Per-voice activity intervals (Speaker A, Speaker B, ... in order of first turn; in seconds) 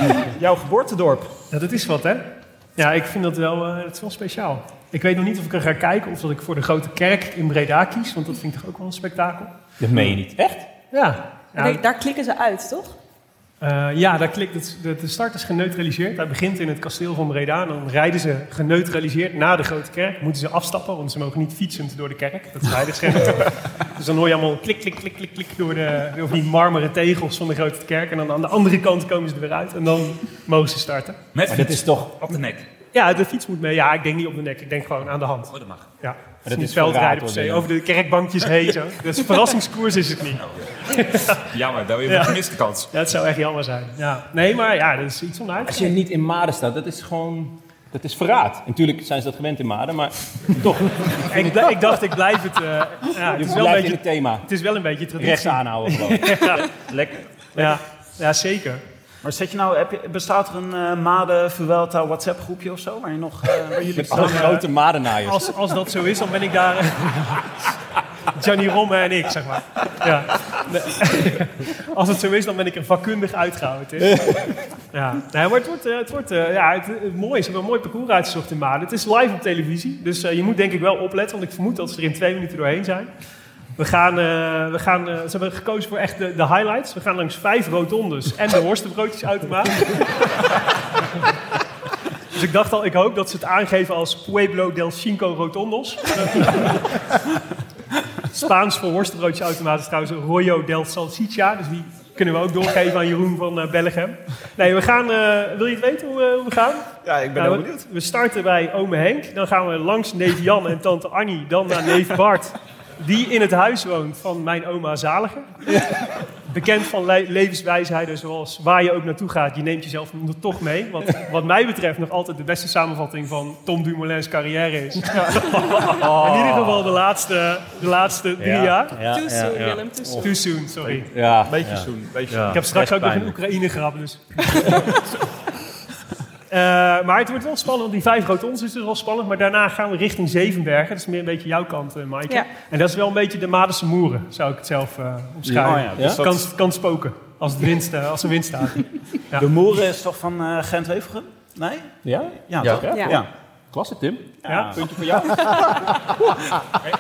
Speaker A: 0.2-1.3, 56.9-57.7, 59.2-64.6, 107.0-107.9, 131.4-132.6, 145.6-146.4, 149.4-153.3, 154.4-155.2
Speaker B: 1.5-9.5, 10.9-11.8, 13.6-31.2, 32.9-41.5, 42.1-42.4, 42.9-45.9, 51.3-56.7, 57.6-58.8, 63.9-64.7, 65.2-67.5, 68.3-74.1, 74.9-83.1, 83.8-90.2, 92.3-97.1, 98.3-115.6, 116.5-129.0, 130.2-131.1, 132.5-134.4, 136.5-149.5, 154.5-154.8
Speaker C: 9.8-10.7, 31.5-32.3, 36.4-37.7, 45.6-52.0, 53.3-54.5, 55.2-56.6, 64.0-65.6, 74.0-74.5, 125.8-127.0, 128.4-130.3, 131.1-133.4, 145.5-146.2, 152.0-156.1
Speaker D: 11.6-13.0, 129.0-130.4, 152.9-153.2
Speaker E: 31.4-32.7, 35.5-35.9, 40.4-42.9